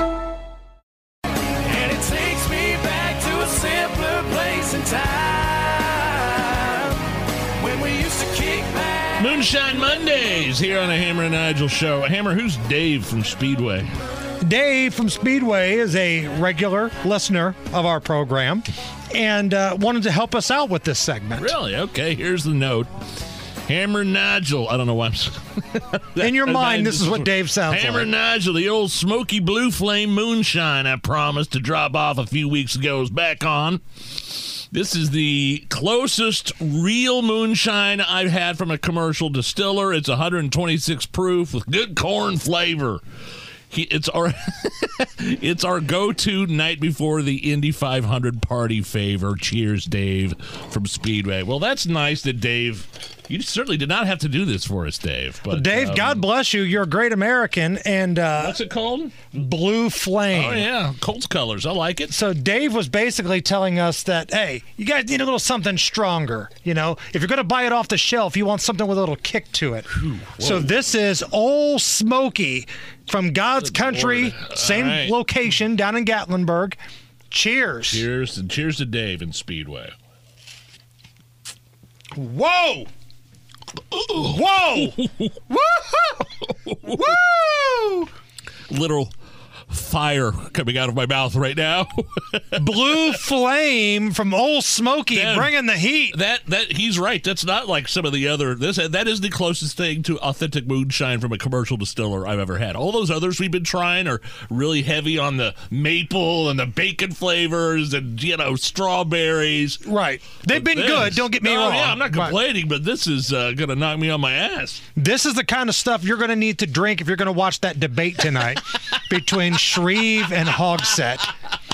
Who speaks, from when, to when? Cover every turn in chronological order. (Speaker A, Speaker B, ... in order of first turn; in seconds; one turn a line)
Speaker A: 1.6-6.9
Speaker A: 7.6-9.1
Speaker B: 9.2-13.9
Speaker C: 14.4-21.5
Speaker B: 21.4-22.9
Speaker B: 23.6-43.0
Speaker C: 26.2-28.1
Speaker B: 43.7-56.2
Speaker C: 55.5-58.6
Speaker B: 58.4-59.2
Speaker C: 59.3-60.7
Speaker B: 60.3-62.1
Speaker C: 62.1-76.8
Speaker B: 70.0-70.8
Speaker B: 73.6-75.2
Speaker C: 77.3-78.0
Speaker B: 77.9-79.9
Speaker C: 82.1-82.9
Speaker B: 84.0-87.2
Speaker C: 84.1-85.0
Speaker C: 86.8-88.0
Speaker B: 88.7-89.1
Speaker B: 89.7-93.1
Speaker C: 92.5-96.2
Speaker B: 95.1-95.5
Speaker B: 96.1-109.8
Speaker C: 109.8-112.4
Speaker B: 110.4-114.8
Speaker C: 115.0-121.3